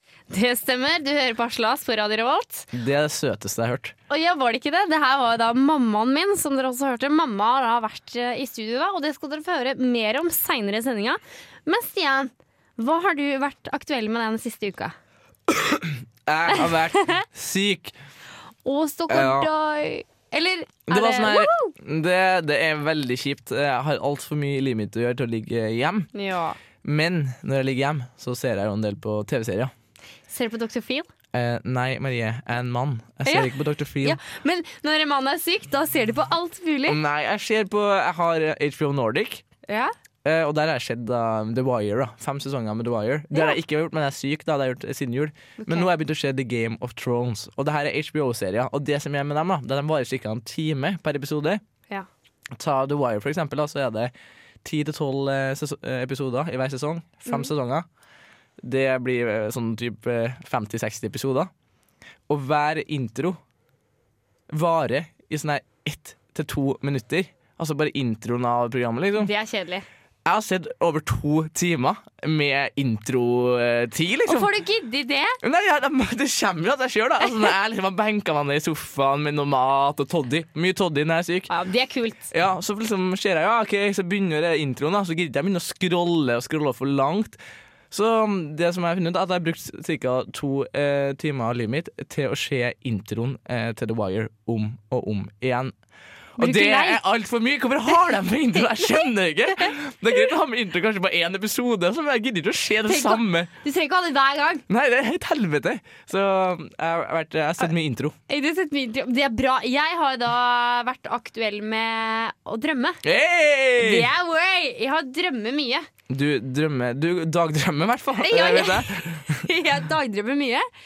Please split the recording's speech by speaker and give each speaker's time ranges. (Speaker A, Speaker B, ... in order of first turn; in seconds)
Speaker A: 0.3-2.7, 4.1-14.9, 16.5-17.2, 18.6-21.7, 26.1-26.6, 30.3-31.1, 33.2-37.0, 39.7-39.9, 43.3-43.6, 45.6-45.9, 69.2-69.8, 74.2-75.4, 81.5-82.3, 96.4-97.0, 102.8-104.6, 108.3-113.0, 113.8-115.9, 118.2-120.7
Speaker B: 2.7-3.9, 15.5-17.9, 19.1-19.5, 20.9-26.1, 26.8-29.7, 31.3-34.2, 36.9-39.4, 40.2-51.6, 52.5-54.1, 54.6-57.9, 58.6-61.5, 62.3-63.4, 64.5-69.3, 70.2-74.5, 75.4-81.5, 82.3-87.4, 87.9-95.7, 96.4-103.5, 104.7-108.2, 113.0-114.1, 116.1-119.5